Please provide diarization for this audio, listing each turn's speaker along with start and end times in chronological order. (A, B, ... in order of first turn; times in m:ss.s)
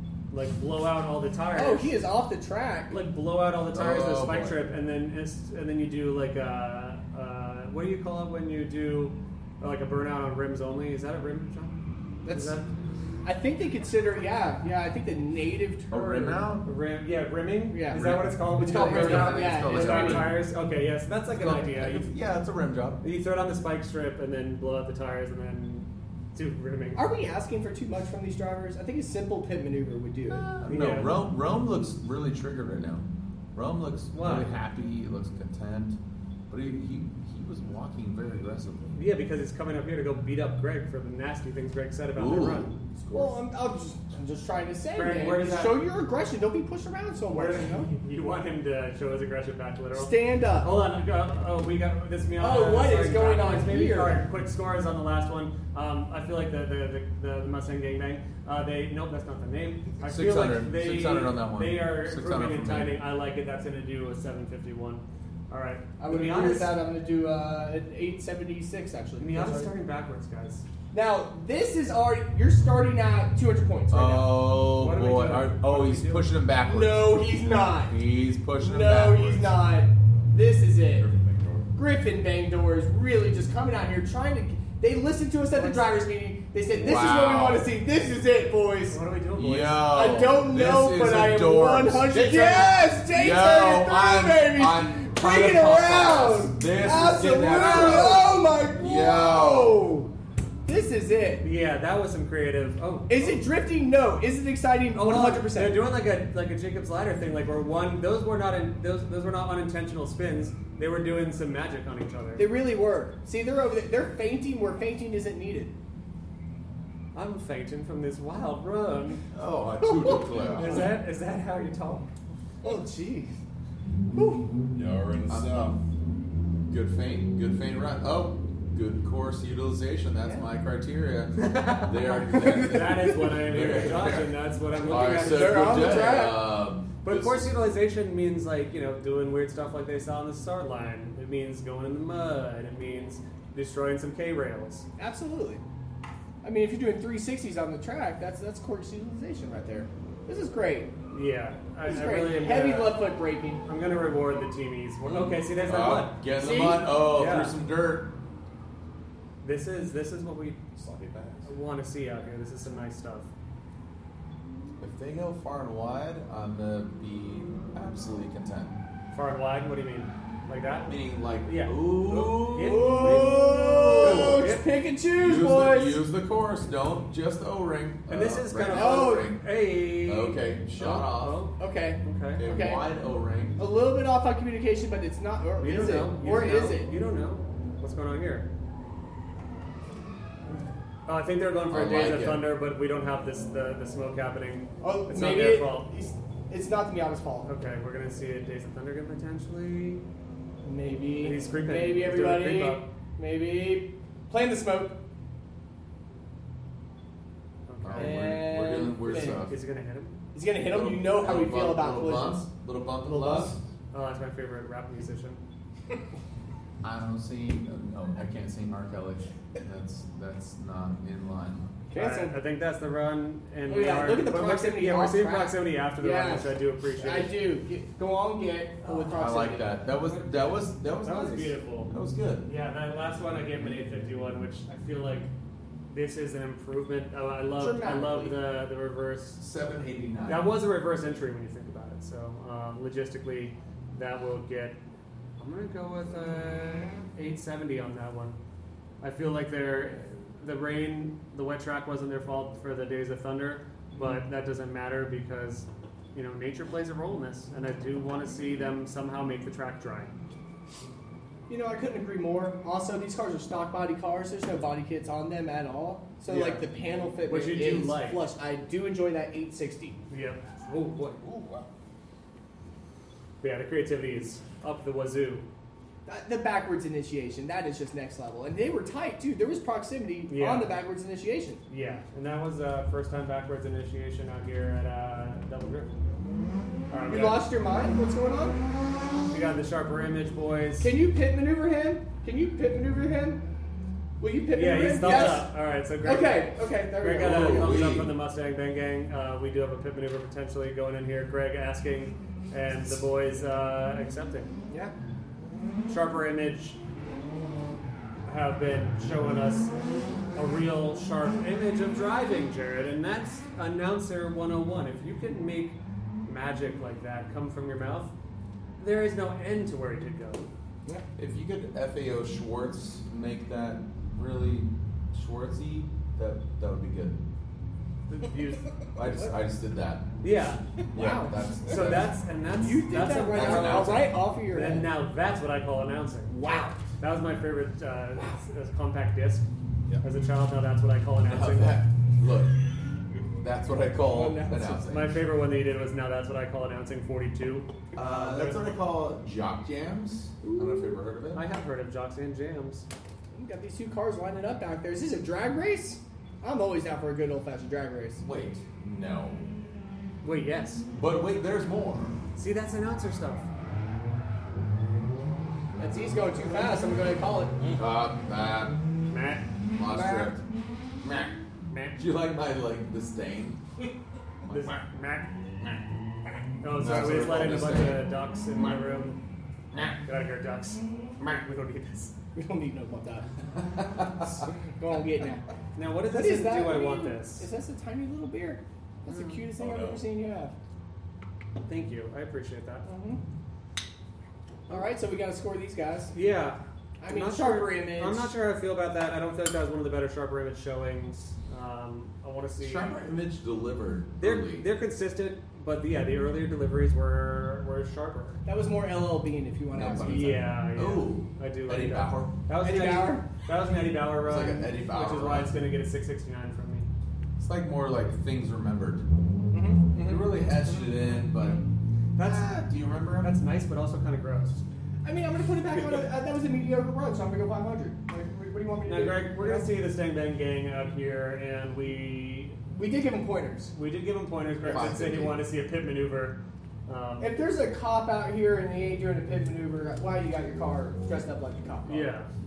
0:00.3-0:02.0 A
0:01.5-0:03.0 B
0:02.9-0:11.7 A
0:03.7-0:04.6 C
0:12.2-0:12.6 B
0:12.3-0:12.7 A
0:13.2-0:16.5 B
0:15.9-0:16.7 C
0:16.6-0:22.1 A
0:17.7-0:20.4 B
0:17.9-0:20.4 C
0:21.3-0:23.0 C
0:23.0-0:27.0 A
0:27.0-0:30.4 B
0:30.3-0:36.0 C
0:30.7-0:31.2 A
0:34.1-0:34.5 A
0:36.5-0:39.0 C
0:39.0-0:42.8 A
0:42.1-0:42.7 C
0:43.1-0:47.9 B
0:45.0-0:45.8 A
0:47.3-1:06.8 A
0:49.9-0:50.8 B
0:52.4-0:54.2 B
1:00.0-1:03.0 C
1:06.0-1:09.7 B
1:09.2-1:10.6 A
1:10.9-1:14.6 B
1:13.9-1:19.6 C
1:14.7-1:16.3 A
1:16.6-1:18.0 B
1:18.6-1:21.1 B
1:21.0-1:21.7 D
1:21.8-1:29.0 B
1:25.5-1:26.0 A
1:26.8-1:27.7 C
1:28.9-1:29.9 A
1:29.4-1:39.9 C
1:29.8-1:40.1 B
1:40.7-1:41.4 B
1:41.4-1:43.4 A
1:43.1-1:45.8 B
1:45.0-1:52.4 A
1:52.4-1:55.7 B
1:57.1-1:59.2 A
1:59.3-2:00.9 C
2:00.0-2:00.9 B
2:00.6-2:02.1 A
2:02.6-2:03.3 B
2:04.1-2:04.5 B
2:04.7-2:05.8 D
2:05.3-2:05.8 C
2:06.7-2:17.6 C
2:11.6-2:13.8 B
2:12.6-2:16.3 A
2:14.9-2:16.5 B
2:17.0-2:24.9 A
2:25.0-2:25.6 B
2:26.4-2:30.9 B
2:31.1-2:33.0 A
2:31.8-2:33.6 B
2:33.7-2:36.2 A
2:35.0-2:38.2 C
2:36.4-2:37.0 B
2:36.9-2:37.6 A
2:39.4-2:40.6 A
2:40.8-2:41.4 D
2:40.8-2:41.4 C
2:41.4-2:43.3 A
2:44.8-2:48.8 C
2:49.1-2:54.7 A
2:50.8-2:54.6 C
2:52.6-2:56.0 B
2:55.1-3:01.4 C
2:58.1-3:02.5 A
2:58.7-2:59.4 B
3:01.6-3:02.9 B
3:02.4-3:03.7 C
3:03.6-3:06.9 B
3:05.6-3:08.4 A
3:11.1-3:15.9 A
3:11.7-3:12.5 C
3:14.8-3:17.5 B
3:17.4-3:20.0 A
3:20.6-3:25.0 B
3:21.2-3:22.9 A
3:27.7-3:28.3 A
3:27.8-3:29.6 C
3:27.9-3:29.4 B
3:29.4-3:30.1 A
3:30.3-3:32.5 B
3:30.7-3:33.6 C
3:33.0-3:33.6 B
3:33.9-3:35.4 A
3:36.8-3:41.7 C
3:41.9-3:42.4 B
3:41.9-3:47.3 A
3:43.7-3:49.7 B
3:48.8-3:52.5 C
3:50.0-3:51.9 A
3:52.4-3:55.3 A
3:55.9-3:59.4 A
3:57.6-3:58.4 B
3:59.4-4:00.5 C
4:00.3-4:04.8 A
4:05.4-4:08.4 A
4:09.0-4:20.1 A
4:13.9-4:14.2 B
4:21.5-4:30.0 B
4:27.3-4:28.2 A
4:30.1-4:31.2 A
4:31.2-4:31.6 D
4:33.4-4:35.4 A
4:36.1-4:41.6 B
4:40.3-4:40.7 A
4:41.7-4:45.9 A
4:46.9-4:47.4 A
4:47.1-4:48.6 B
4:49.3-4:50.9 A
4:50.8-4:53.4 B
4:54.2-4:57.7 B
4:54.5-5:04.5 A
4:57.2-4:58.1 C
5:05.9-5:06.8 A
5:08.2-5:09.7 A
5:10.4-5:18.1 A
5:18.8-5:20.4 A
5:21.2-5:27.2 C
5:28.1-5:28.6 A
5:28.9-5:30.1 C
5:29.0-5:29.3 B
5:30.2-5:30.6 A
5:30.9-5:31.4 B
5:30.9-5:32.2 C
5:31.7-5:36.4 A
5:32.6-5:34.9 B
5:33.3-5:34.2 C
5:36.3-5:36.8 B
5:37.0-5:39.4 A
5:40.0-5:41.8 A
5:41.3-5:42.6 C
5:43.4-5:45.2 C
5:44.0-5:44.9 B
5:44.9-5:47.7 A
5:47.9-5:51.4 C
5:48.0-5:48.6 B
5:50.4-5:51.0 B
5:51.4-5:52.9 A
5:53.3-5:58.2 B
5:58.2-5:59.5 C
6:00.2-6:00.8 A
6:00.9-6:02.2 C
6:02.4-6:03.5 A
6:05.8-6:07.6 B
6:07.8-6:08.8 C
6:09.1-6:09.4 A
6:09.7-6:10.4 C
6:09.9-6:10.4 B
6:11.0-6:11.4 C
6:11.7-6:12.0 A
6:12.0-6:13.6 C
6:14.4-6:14.7 C
6:14.5-6:15.3 A
6:16.6-6:19.2 A
6:16.7-6:18.1 C
6:19.7-6:20.0 C
6:20.0-6:22.1 A
6:22.4-6:23.3 B
6:24.0-6:24.2 C
6:24.8-6:25.4 B
6:25.8-6:27.5 A
6:26.1-6:30.5 B
6:29.6-6:30.0 D
6:31.6-6:32.8 A
6:32.8-6:33.2 B
6:34.7-6:36.1 B
6:36.1-6:43.0 A
6:37.0-6:38.4 B
6:42.6-6:44.7 C
6:44.2-6:48.4 A
6:48.4-6:50.4 B
6:49.7-6:52.3 C
6:50.0-6:56.9 A
6:52.6-6:53.3 B
6:54.2-6:55.6 C
6:57.4-6:59.1 C
6:59.5-7:01.6 B
7:00.0-7:01.6 C
7:02.2-7:02.6 A
7:02.2-7:03.3 C
7:03.2-7:04.6 A
7:05.0-7:09.7 B
7:08.9-7:12.6 A
7:12.7-7:13.7 B
7:13.7-7:17.4 A
7:14.6-7:15.4 C
7:17.2-7:22.1 B
7:21.9-7:22.3 A